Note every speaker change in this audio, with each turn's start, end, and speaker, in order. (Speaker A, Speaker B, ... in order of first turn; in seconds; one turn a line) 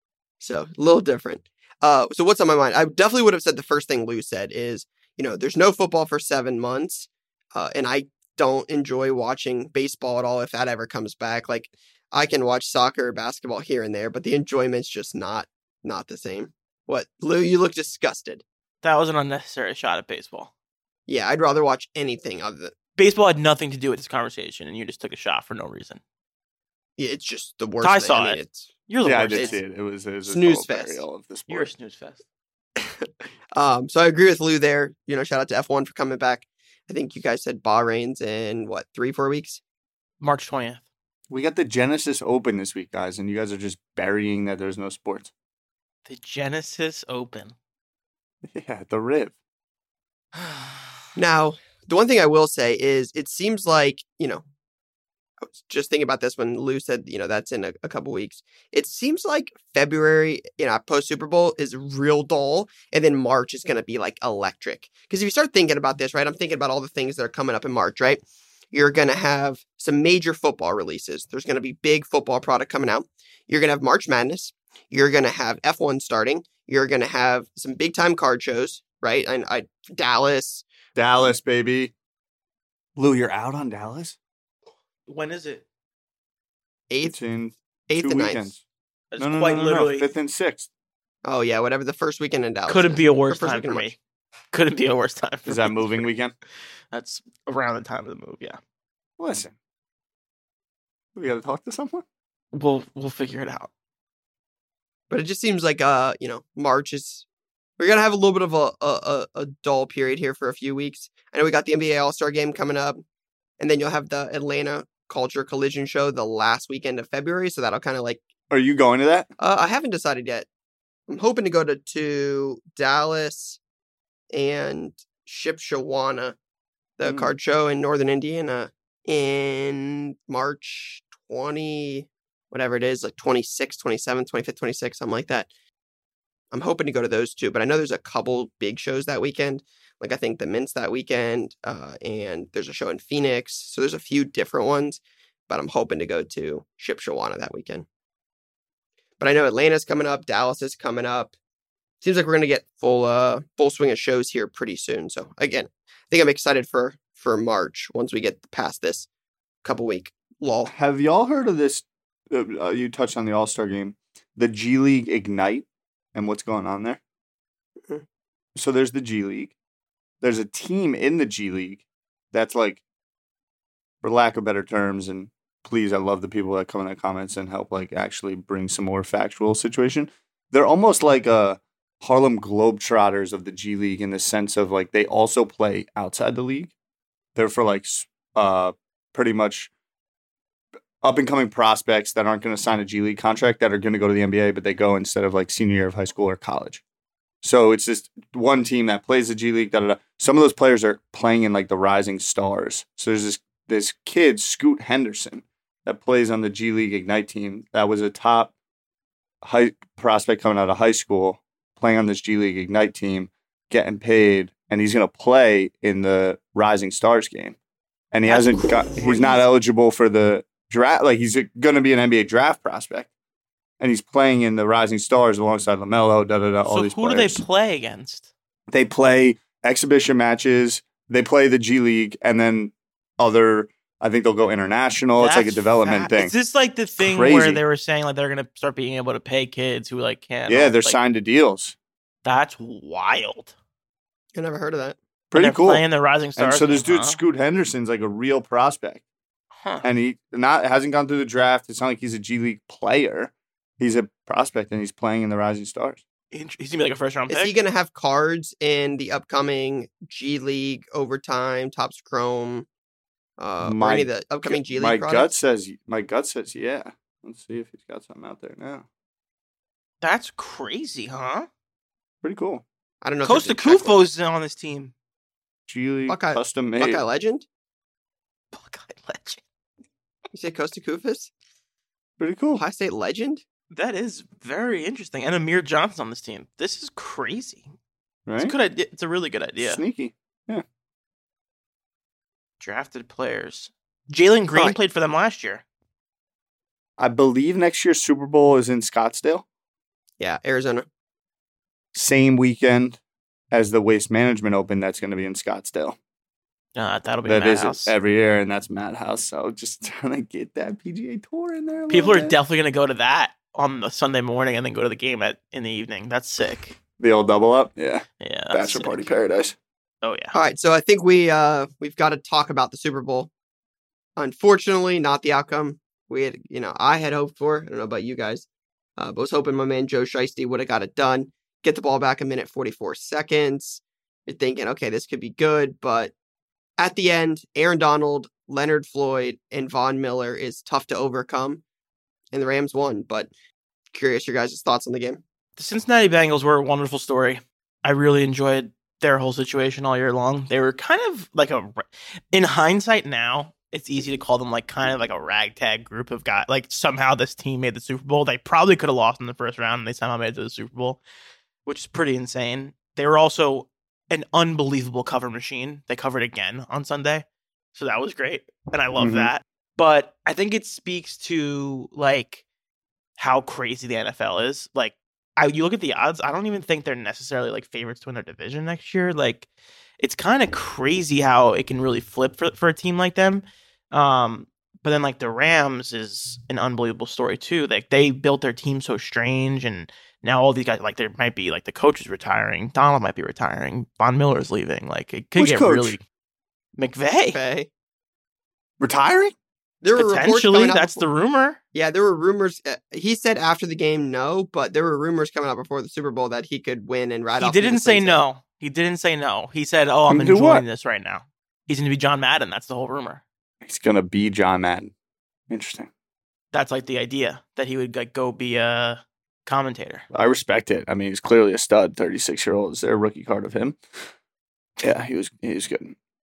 Speaker A: 0.4-18.4
Speaker B: 18.8-20.5
Speaker A: 21.1-22.7
Speaker B: 23.0-26.0
Speaker A: 27.0-28.7
Speaker B: 27.8-29.6
Speaker C: 29.0-31.7
Speaker A: 30.2-31.0
Speaker B: 31.5-32.2
Speaker A: 32.8-39.6
Speaker B: 40.2-40.8
Speaker C: 41.3-45.3
Speaker B: 46.0-47.5
Speaker C: 48.5-49.3
Speaker B: 50.4-50.8
Speaker A: 51.1-54.4
Speaker A: 55.6-68.2
Speaker A: 68.7-80.6
Speaker C: 80.9-81.9
Speaker C: 83.0-84.2
Speaker B: 85.1-85.6
Speaker A: 86.9-87.1
Speaker C: 87.0-88.6
Speaker A: 87.9-88.5
Speaker B: 89.1-90.1
Speaker C: 89.2-90.7
Speaker A: 91.2-93.9
Speaker B: 92.7-94.0
Speaker B: 94.5-96.1
Speaker C: 95.5-96.3
Speaker B: 96.9-98.6
Speaker C: 99.2-99.5
Speaker C: 101.1-102.0
Speaker B: 102.5-103.7
Speaker A: 105.1-107.2
Speaker A: 107.8-113.0
Speaker A: 113.6-118.2
Speaker C: 118.5-119.3
Speaker A: 119.4-120.5
Speaker A: 121.1-123.6
Speaker A: 124.3-126.4
Speaker A: 127.0-135.5
Speaker C: 127.0-127.3
Speaker A: 136.5-147.8
Speaker A: 149.2-151.3
Speaker A: 152.0-159.1
Speaker A: 159.6-160.7
Speaker C: 160.7-167.0
Speaker C: 168.5-169.5
Speaker C: 170.2-172.8
Speaker C: 174.0-186.7
Speaker C: 187.3-189.7
Speaker C: 191.0-196.8
Speaker C: 197.4-208.5
Speaker C: 209.4-217.6
Speaker C: 218.1-223.1
Speaker B: 218.2-219.4
Speaker C: 223.8-227.4
Speaker B: 226.6-228.3
Speaker C: 228.7-236.3
Speaker B: 235.2-241.0
Speaker C: 237.0-237.6
Speaker C: 240.5-241.7
Speaker B: 242.2-243.5
Speaker A: 244.3-245.0
Speaker C: 245.3-245.8
Speaker B: 245.3-247.2
Speaker C: 246.3-249.0
Speaker C: 249.8-256.0
Speaker B: 256.3-257.5
Speaker A: 257.3-262.7
Speaker A: 263.4-265.3
Speaker C: 263.6-268.9
Speaker B: 270.0-271.5
Speaker C: 272.2-272.6
Speaker A: 273.0-274.0
Speaker B: 273.2-274.9
Speaker C: 275.7-277.0
Speaker A: 276.1-277.4
Speaker B: 278.5-279.4
Speaker A: 280.3-281.3
Speaker C: 282.2-282.6
Speaker A: 282.6-283.4
Speaker B: 283.7-287.7
Speaker C: 288.2-288.5
Speaker B: 288.4-289.8
Speaker C: 289.6-290.6
Speaker B: 292.6-295.6
Speaker C: 297.0-299.4
Speaker A: 300.2-300.9
Speaker C: 301.9-303.0
Speaker C: 303.5-306.0
Speaker B: 306.8-307.9
Speaker C: 307.2-312.3
Speaker B: 311.9-316.8
Speaker C: 317.0-319.6
Speaker B: 318.2-319.1
Speaker B: 320.0-320.3
Speaker A: 320.3-323.3
Speaker A: 324.2-336.1
Speaker A: 336.8-341.6
Speaker A: 342.3-343.3
Speaker A: 343.9-345.2
Speaker B: 345.6-361.0
Speaker B: 361.6-372.4
Speaker C: 368.9-369.3
Speaker B: 373.2-379.5
Speaker B: 380.0-396.0
Speaker C: 395.4-396.0
Speaker B: 396.8-397.4
Speaker A: 397.3-397.7
Speaker C: 398.8-399.3
Speaker A: 399.8-401.0
Speaker B: 399.9-401.6
Speaker A: 401.7-408.2
Speaker B: 407.4-413.2
Speaker C: 410.1-410.6
Speaker C: 413.6-414.9
Speaker C: 415.5-415.9
Speaker B: 416.5-420.0
Speaker C: 420.1-423.8
Speaker C: 424.8-425.9